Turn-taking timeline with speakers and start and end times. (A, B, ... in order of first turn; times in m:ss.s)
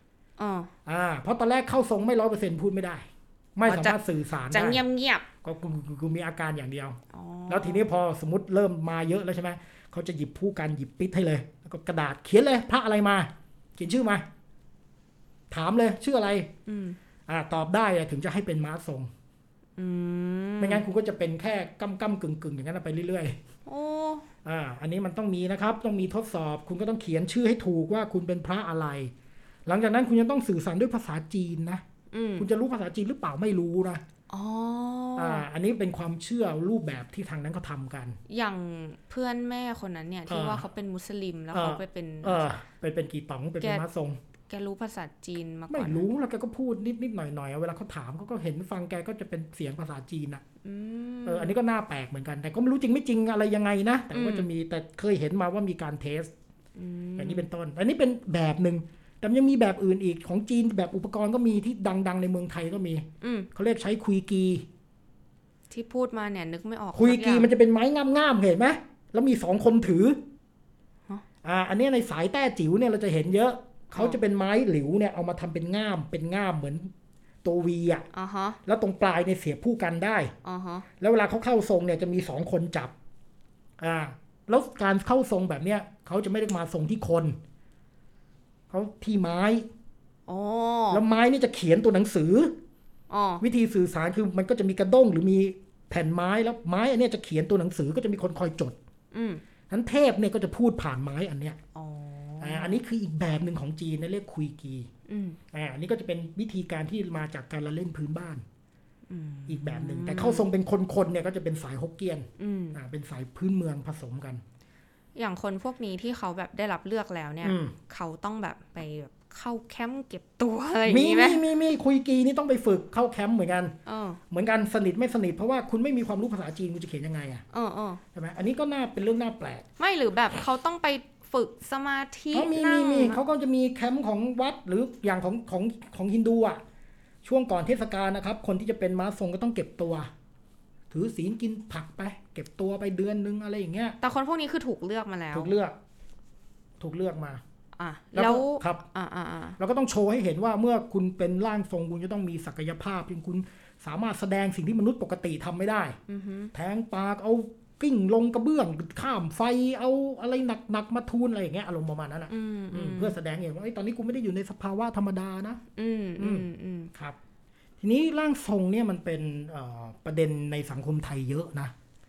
0:00.4-0:00.7 A
0:00.8-0:04.8 B
0:03.6-0:04.0 A
0:04.5-0:05.2 A
0:05.4-0:14.2 B
0:07.1-0:07.8 A
0:15.5-0:16.5 B
0:16.6-0:17.0 A
0:17.3-0:19.1 B
0:19.8-0:20.8 A
0:20.6-0:23.4 B
0:23.6-0:24.2 A
0:24.4-0:29.1 B
0:29.6-0:31.8 B
0:32.1-0:32.5 A
0:32.4-0:34.0 B
0:34.3-0:35.4 A
0:35.2-0:38.2 B
0:38.3-0:42.5 A
0:40.3-0:40.7 B
0:41.5-0:44.2 B
0:44.5-0:46.0 A
0:45.7-0:50.4 B
0:50.6-0:51.5 A
0:51.2-0:56.3 B
0:54.1-0:54.5 A
0:56.8-0:57.5 A
0:57.2-1:04.6 B
1:03.2-1:03.5 A
1:05.7-1:07.5 A
1:06.9-1:10.2 B
1:11.4-1:16.9 B
1:17.4-1:18.1 B
1:18.1-1:18.6 A
1:18.6-1:20.3 B
1:20.4-1:20.8 A
1:21.0-1:22.9 B
1:23.8-1:27.4 B
1:28.7-1:29.7 B
1:30.3-1:31.0 A
1:30.9-1:32.5 B
1:33.1-1:33.4 A
1:33.4-1:38.8 B
1:39.1-1:39.4 A
1:39.7-1:41.6 B
1:41.7-1:42.8 A
1:42.4-1:44.9 B
1:45.1-1:45.4 A
1:45.5-1:48.4 B
1:49.1-1:50.5 A
1:49.5-1:54.4 B
1:52.4-1:52.8 A
1:55.2-2:01.4 A
1:57.4-1:57.7 B
2:00.9-2:03.7 B
2:03.8-2:04.2 A
2:04.3-2:07.4 B
2:07.5-2:08.0 A
2:08.1-2:09.6 B
2:09.8-2:13.2 A
2:12.3-2:16.6 B
2:17.2-2:20.1 B
2:20.9-2:24.0 B
2:24.0-2:25.5 A
2:25.3-2:25.8 B
2:26.8-2:27.4 B
2:27.8-2:29.6 A
2:28.1-2:28.8 B
2:29.6-2:36.0 B
2:36.1-2:36.5 A
2:36.5-2:45.6 B
2:42.3-2:43.2 A
2:45.8-2:46.9 A
2:46.2-2:47.2 B
2:47.8-2:51.7 B